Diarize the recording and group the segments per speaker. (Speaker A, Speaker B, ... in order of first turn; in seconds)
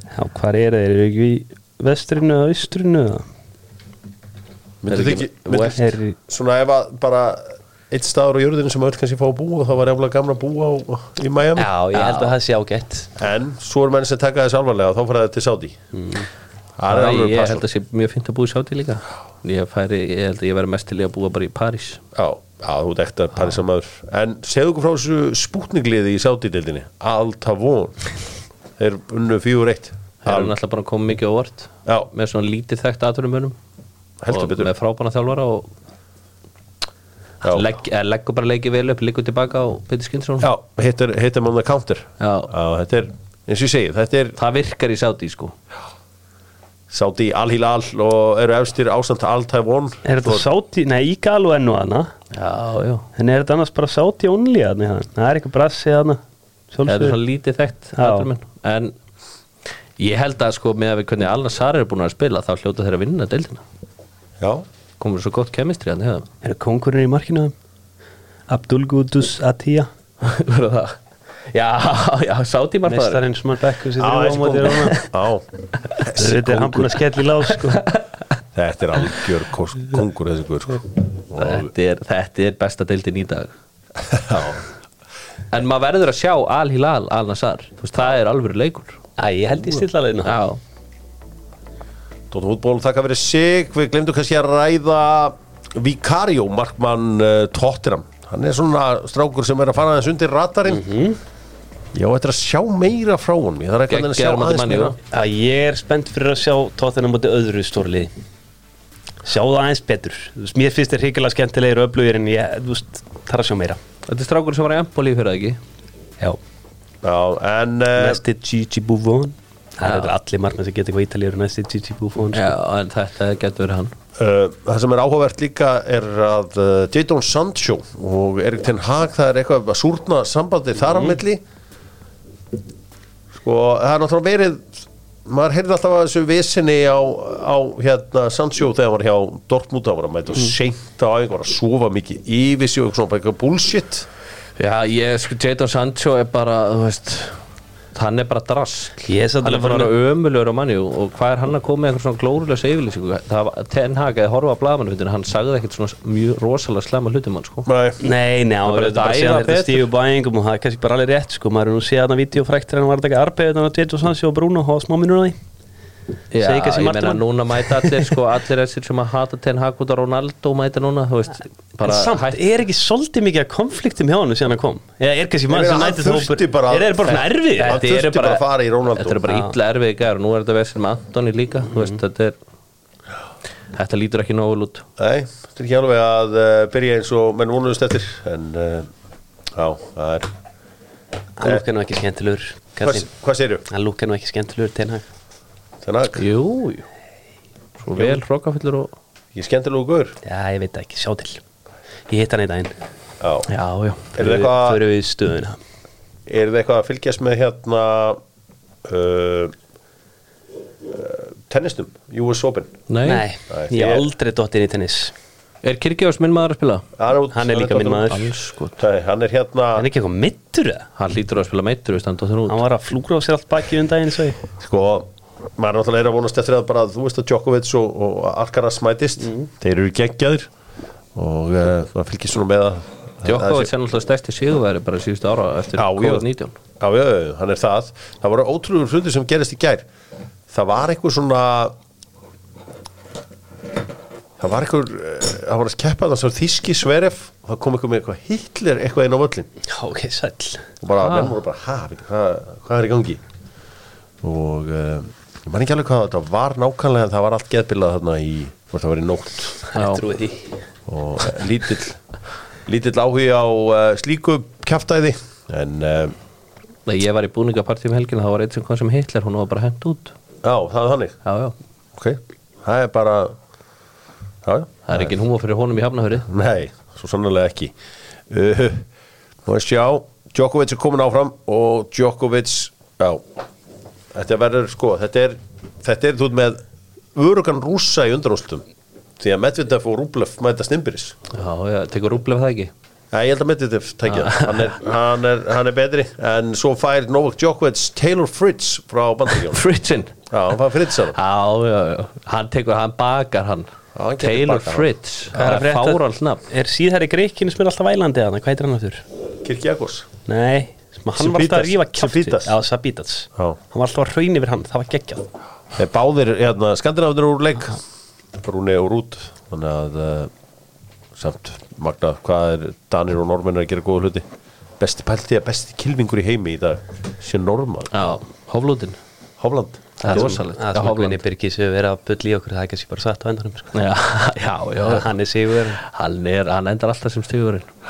Speaker A: 0.1-3.2, 5.7-6.2, 11.6-13.1, 15.9-16.3, 50.1-52.1, 53.2-56.2, 56.7-57.2, 58.0-58.3, 66.4-67.5, 68.5-69.9, 72.9-75.0, 76.2-77.8, 89.2-90.4, 100.7-101.2, 105.1-108.1, 109.2-113.8, 118.0-122.5, 149.1-149.9, 158.0-165.4, 166.4-168.2, 171.8-177.8, 179.3-179.5, 191.4-193.1, 193.7-195.1, 200.2-201.4, 202.1-202.8, 204.2-205.6, 213.0-215.1, 217.3-218.3, 219.8-220.9, 222.5-224.4, 249.7-250.7, 259.7-260.6, 305.3-309.0, 310.3-315.3, 330.1-333.7, 334.9-335.8
Speaker B: 4.8-11.7, 13.2-15.8, 16.8-17.7, 22.1-28.0, 28.8-30.5, 34.2-34.7, 40.4-44.4, 46.9-50.5, 64.4-64.7, 74.0-77.0, 78.5-81.7, 84.0-84.6, 92.3-100.8, 101.9-105.0, 117.0-118.2, 124.2-131.4, 133.3-144.1, 157.7-158.0, 175.5-179.2, 185.0-188.9, 189.5-190.3, 192.8-193.7, 195.8-196.2, 199.3-200.2, 203.2-203.5, 204.2-204.8, 206.3-208.2, 208.8-209.5, 210.9-212.8, 213.5-214.1, 217.0-218.2, 218.8-219.9, 224.6-230.5, 231.2-233.7, 235.8-236.3, 236.8-239.9, 240.5-241.8, 244.4-249.5, 250.8-253.2, 254.2-259.7, 260.9-262.0, 262.7-266.1, 270.4-271.2, 272.0-273.4, 274.4-275.1, 276.3-277.7, 278.3-278.9, 279.4-283.4, 284.1-286.6, 287.1-288.6, 289.2-291.2, 293.1-299.6, 300.3-301.2, 303.9-304.9, 309.4-310.1, 311.2-312.5, 315.8-317.8, 318.4-320.3, 321.2-324.2, 324.8-327.9, 329.4-330.4
Speaker C: 4.9-5.8, 11.9-12.3, 16.9-22.0, 30.2-33.6, 34.3-35.7, 37.4-40.5, 42.2-42.5, 44.4-45.5, 52.3-53.1, 56.9-58.9, 60.0-63.6, 65.0-66.3, 70.2-71.0, 71.5-73.2, 77.7-78.0, 81.4-83.5, 85.5-89.0, 90.2-90.6, 103.9-105.0, 114.1-115.6, 119.8-120.1, 122.3-123.9, 144.6-147.4, 147.9-157.7, 158.7-159.9, 166.3-172.4, 177.7-182.4, 183.7-184.8, 196.2-196.9, 197.8-198.9, 203.5-204.2, 212.9-213.2, 215.6-216.9, 218.0-218.8, 221.0-222.6, 233.2-236.6, 251.0-251.4, 259.8-260.0, 266.9-270.1, 271.2-271.6, 274.9-276.3, 291.3-292.7, 294.1-294.7, 299.5-300.2, 301.1-303.7, 304.2-306.4, 327.9-329.0, 330.0-331.2, 333.7-335.1, 335.8-337.7